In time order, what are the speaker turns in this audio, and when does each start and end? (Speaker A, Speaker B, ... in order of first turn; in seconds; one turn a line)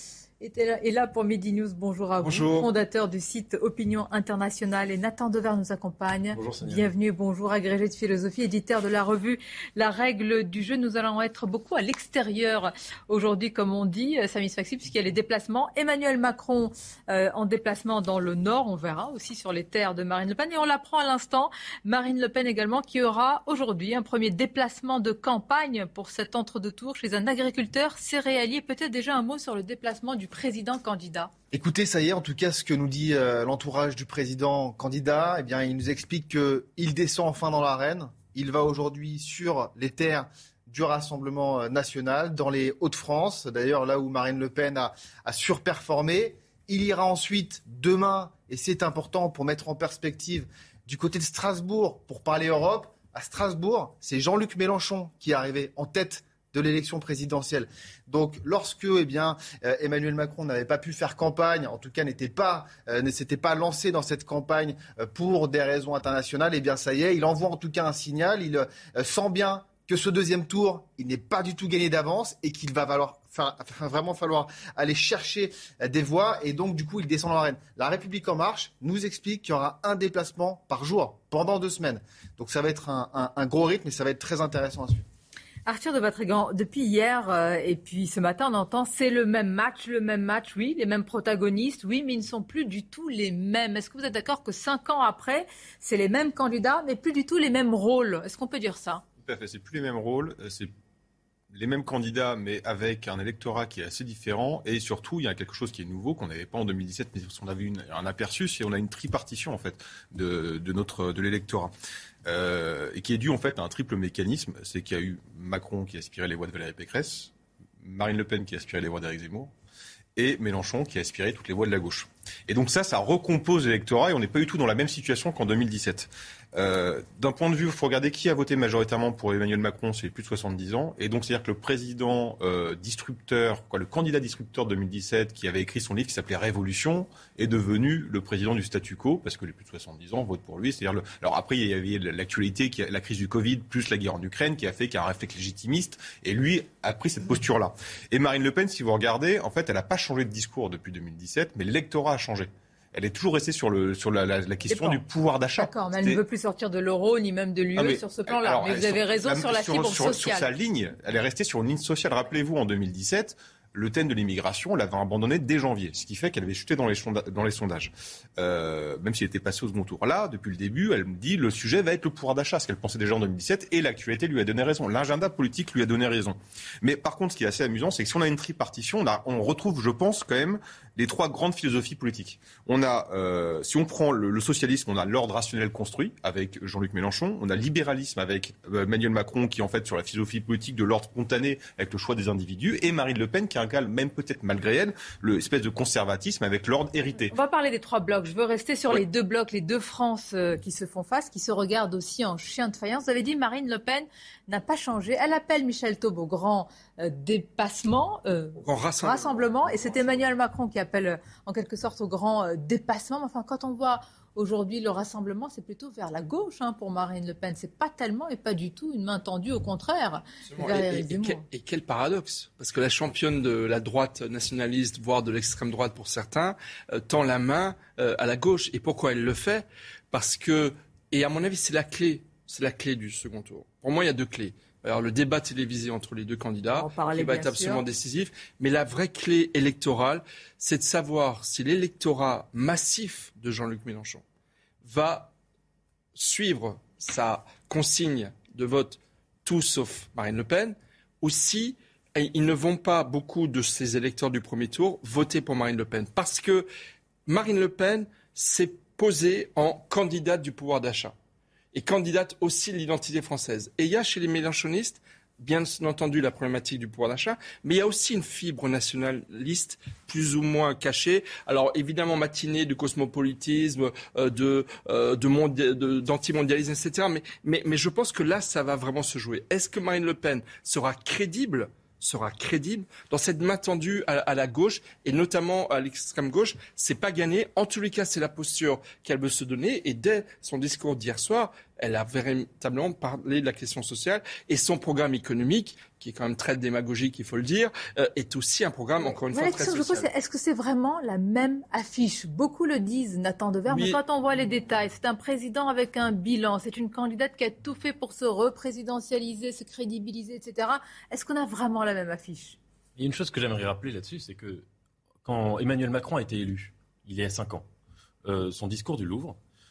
Speaker A: 0.4-31.3
Speaker B: 2.2-2.7
Speaker C: 6.3-6.9
Speaker D: 31.5-85.0
Speaker A: 85.7-99.0
Speaker E: 99.2-100.7
Speaker E: 101.5-111.7
Speaker E: 112.2-119.5
Speaker E: 120.2-156.2
Speaker A: 154.7-155.0
Speaker A: 155.6-160.5
Speaker E: 157.8-197.3
Speaker A: 197.3-221.4
Speaker B: 208.6-210.2
Speaker B: 220.5-244.2
Speaker A: 236.7-237.8
Speaker B: 244.8-245.3
Speaker B: 246.1-256.7
Speaker B: 257.3-261.1
Speaker B: 261.7-300.1
Speaker A: 299.3-312.6
Speaker B: 303.7-304.0
Speaker C: 313.0-314.6
Speaker C: 315.2-317.6
Speaker C: 318.2-319.4